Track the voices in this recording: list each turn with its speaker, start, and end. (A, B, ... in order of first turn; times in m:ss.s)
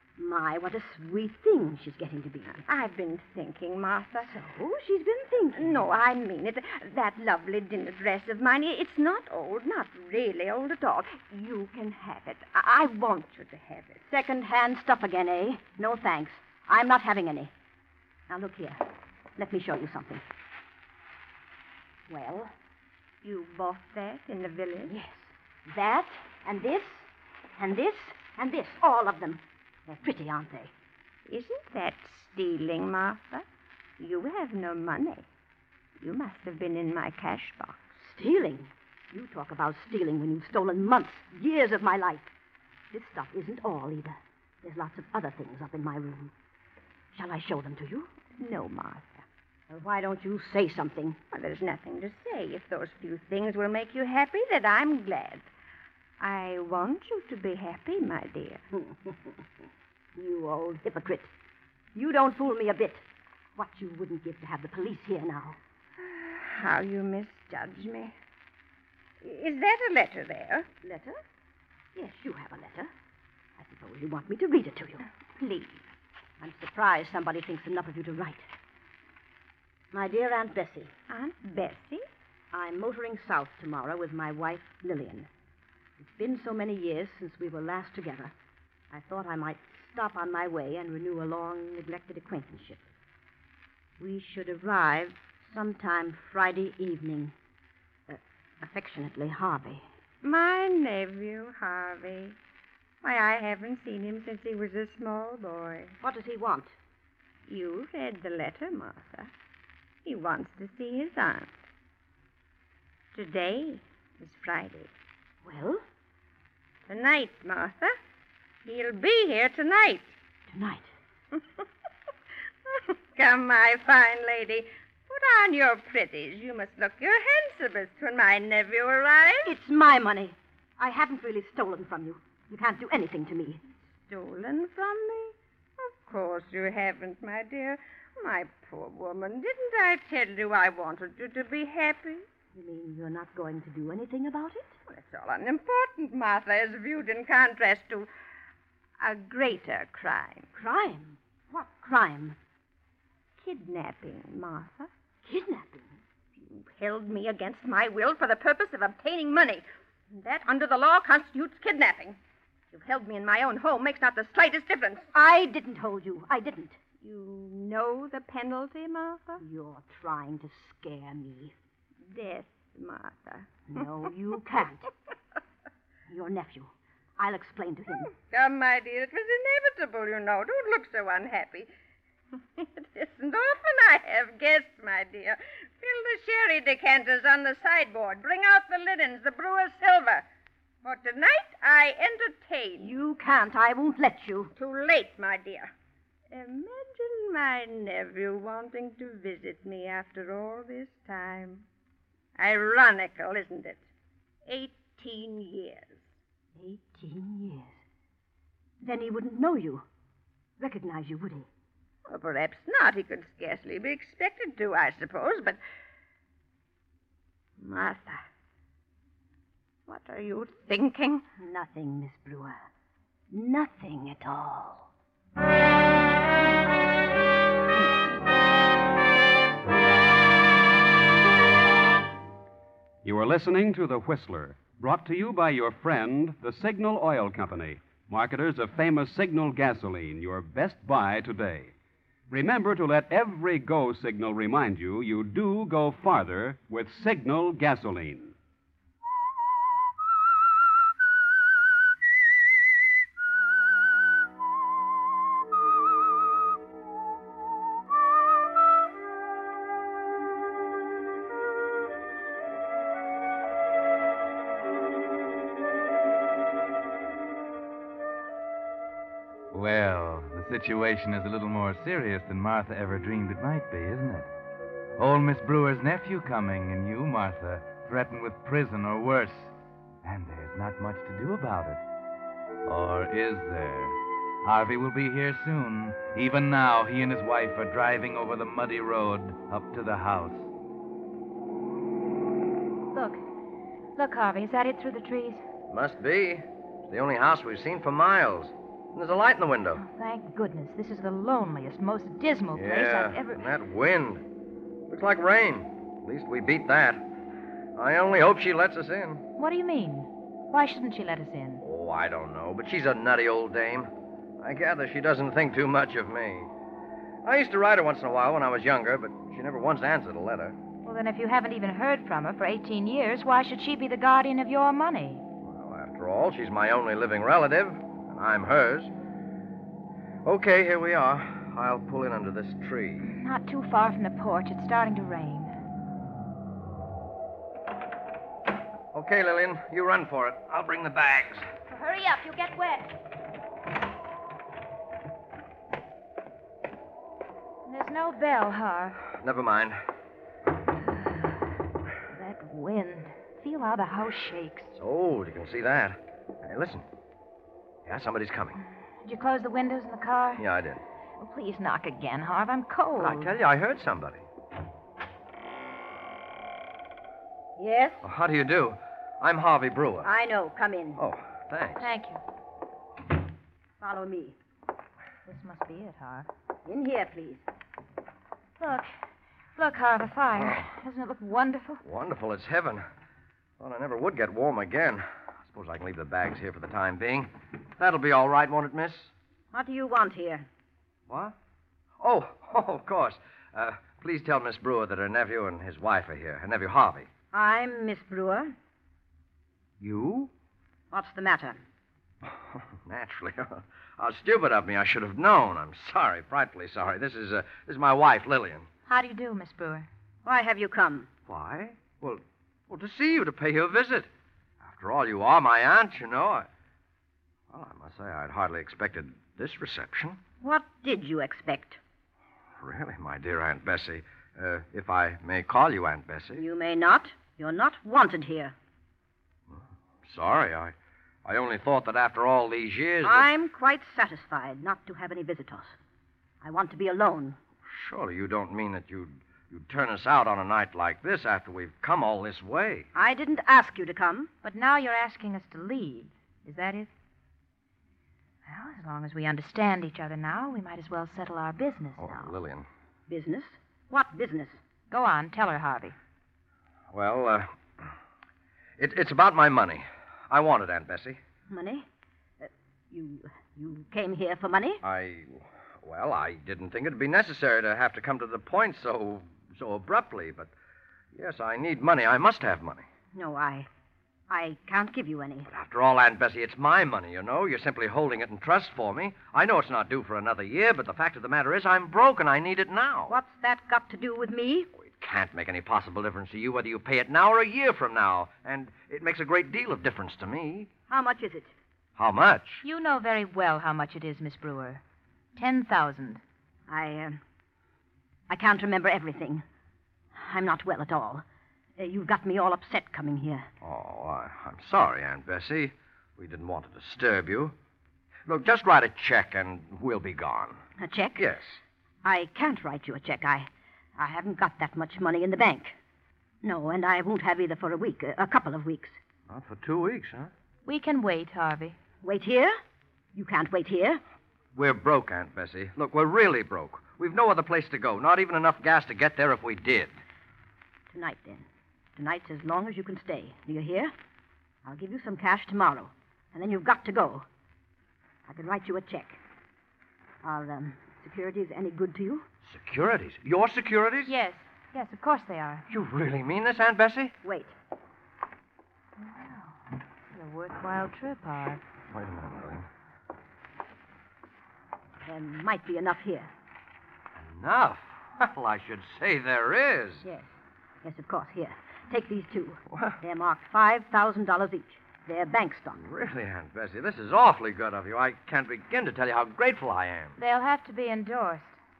0:00.2-0:02.6 A
0:02.5-0:04.3 B
0:04.2-0:05.9 A
0:05.6-0:14.0 B
0:14.1-0:17.5 A
0:18.3-0:18.8 A
0:19.4-0:20.2 A
0:22.1-0:22.5 A
0:23.2-0:24.9 B
0:24.9-0:30.7 A
0:31.3-0:33.4 B
0:34.0-0:35.3 B
0:36.0-0:38.0 B
0:38.0-0:42.3 A
0:42.9-0:46.3 A
0:47.1-0:48.1 A
0:48.3-0:49.2 B
0:49.7-0:51.2 A
0:51.3-0:55.5 B
0:56.2-0:58.6 B
1:00.2-1:01.3 A
1:02.0-1:03.0 A
1:03.6-1:05.6 A
1:06.0-1:08.1 B
1:09.2-1:10.7 B
1:10.8-1:11.2 A
1:12.0-1:12.9 A
1:13.6-1:15.0 A
1:15.4-1:15.9 B
1:16.4-1:18.5 A
1:19.9-1:20.9 A
1:21.1-1:22.0 B
1:22.5-1:25.3 A
1:26.0-1:28.3 A
1:28.9-1:32.8 A
1:34.0-1:37.4 A
1:38.1-1:39.8 A
1:40.2-1:42.4 B
1:43.0-1:46.0 B
1:46.0-1:46.8 A
1:47.5-1:49.3 B
1:50.0-1:51.5 B
1:53.1-1:54.9 B
1:55.4-1:55.8 A
1:56.9-1:57.9 B
1:58.6-2:00.2 B
2:00.5-2:00.9 A
2:02.7-2:09.6 B
2:09.4-2:13.6 A
2:13.9-2:22.2 B
2:22.6-2:24.8 A
2:24.9-2:28.1 B
2:29.0-2:30.5 B
2:30.6-2:32.4 A
2:33.4-2:34.9 B
2:35.2-2:36.0 A
2:36.4-2:42.2 B
2:42.7-2:45.1 B
2:45.1-2:46.8 A
2:47.0-2:49.4 B
2:49.4-2:51.6 A
2:52.1-2:53.9 B
2:53.7-2:54.8 A
2:56.1-2:58.1 A
2:58.1-3:01.7 B
3:02.6-3:10.3 B
3:10.8-3:13.0 B
3:12.8-3:14.5 A
3:14.6-3:15.7 B
3:16.3-3:21.6 B
3:22.4-3:23.8 B
3:24.5-3:26.2 B
3:26.6-3:27.8 A
3:28.8-3:29.9 A
3:30.6-3:31.5 A
3:32.1-3:35.6 B
3:37.6-3:38.2 B
3:39.9-3:41.2 B
3:41.4-3:42.7 A
3:43.3-3:44.9 A
3:53.0-4:01.7 C
4:02.3-4:08.4 C
4:29.5-4:34.3 D
4:35.0-4:41.8 D
4:42.6-4:50.5 D
4:52.9-4:53.2 E
4:54.0-4:55.4 E
4:55.7-4:59.8 F
4:59.8-5:03.4 E
5:02.5-5:04.2 F
5:04.9-5:07.0 F
5:07.8-5:09.2 F
5:09.4-5:11.6 E
5:11.6-5:13.9 F
5:14.4-5:16.5 F
5:17.2-5:20.6 F
5:20.8-5:25.2 E
5:25.4-5:28.9 F
5:30.2-5:33.1 F
5:33.0-5:35.5 E
5:38.9-5:41.5 F
5:41.7-5:42.9 E
5:47.7-5:49.0 E
5:49.2-5:49.8 F
5:52.1-5:54.7 E
5:54.7-5:56.9 F
5:57.9-5:58.6 F
5:59.0-6:00.4 E
6:00.4-6:00.8 F
6:01.2-6:03.3 E
6:03.0-6:04.3 F
6:07.6-6:08.1 A
6:08.0-6:10.1 F
6:10.0-6:11.0 A
6:11.0-6:11.9 F
6:11.8-6:12.2 E
6:13.8-6:14.4 A
6:15.3-6:16.3 E
6:16.6-6:17.4 A
6:18.6-6:18.9 E
6:19.6-6:21.8 E
6:20.4-6:20.7 F
6:21.8-6:22.8 F
6:23.6-6:29.1 F
6:29.5-6:30.5 A
6:31.1-6:31.4 F
6:32.0-6:37.1 F
6:37.3-6:38.6 A
6:39.8-6:40.3 F
6:40.9-6:41.6 A
6:42.2-6:48.7 F
6:48.9-6:49.9 E
6:50.2-6:51.1 A
6:51.3-6:54.1 F
6:54.6-6:56.5 F
6:57.5-7:00.2 F
7:00.4-7:01.8 A
7:02.6-7:06.4 F
7:06.3-7:08.6 A
7:09.5-7:13.3 F
7:13.0-7:15.8 A
7:16.4-7:17.4 A
7:17.7-7:22.9 F
7:23.0-7:24.3 A
7:24.4-7:26.9 E
7:28.5-7:32.3 E
7:32.0-7:32.7 F
7:33.1-7:34.6 A
7:34.9-7:36.0 E
7:36.9-7:37.9 F
7:38.8-7:41.2 F
7:41.5-7:41.9 A
7:42.4-7:44.8 A
7:44.8-7:50.5 F
7:51.2-7:52.9 F
7:53.1-7:53.7 A
7:54.3-7:55.5 A
7:55.5-8:03.2 F
8:03.1-8:04.7 A
8:04.8-8:10.7 F
8:10.9-8:11.5 A
8:12.0-8:12.6 F
8:12.6-8:14.8 E
8:15.4-8:16.2 E
8:16.7-8:17.2 A
8:18.3-8:19.4 A
8:20.1-8:21.2 A
8:21.8-8:23.5 A
8:23.6-8:27.5 F
8:28.3-8:30.6 F
8:30.8-8:31.2 A
8:31.2-8:31.6 F
8:32.0-8:35.8 A
8:36.4-8:39.0 A
8:39.3-8:40.3 F
8:40.7-8:41.8 E
8:42.0-8:42.6 A
8:43.2-8:44.0 A
8:44.6-8:50.0 F
8:50.9-8:53.9 A
8:54.6-8:57.3 A
8:58.3-8:59.2 A
9:00.2-9:02.3 A
9:02.5-9:04.1 F
9:04.0-9:05.7 E
9:05.7-9:07.2 F
9:07.2-9:07.6 A
9:09.0-9:09.6 E
9:10.1-9:11.6 E
9:11.9-9:12.7 F
9:15.1-9:16.3 A
9:17.2-9:20.0 F
9:20.8-9:25.8 A
9:22.7-9:23.0 F
9:25.8-9:30.2 F
9:30.2-9:31.6 E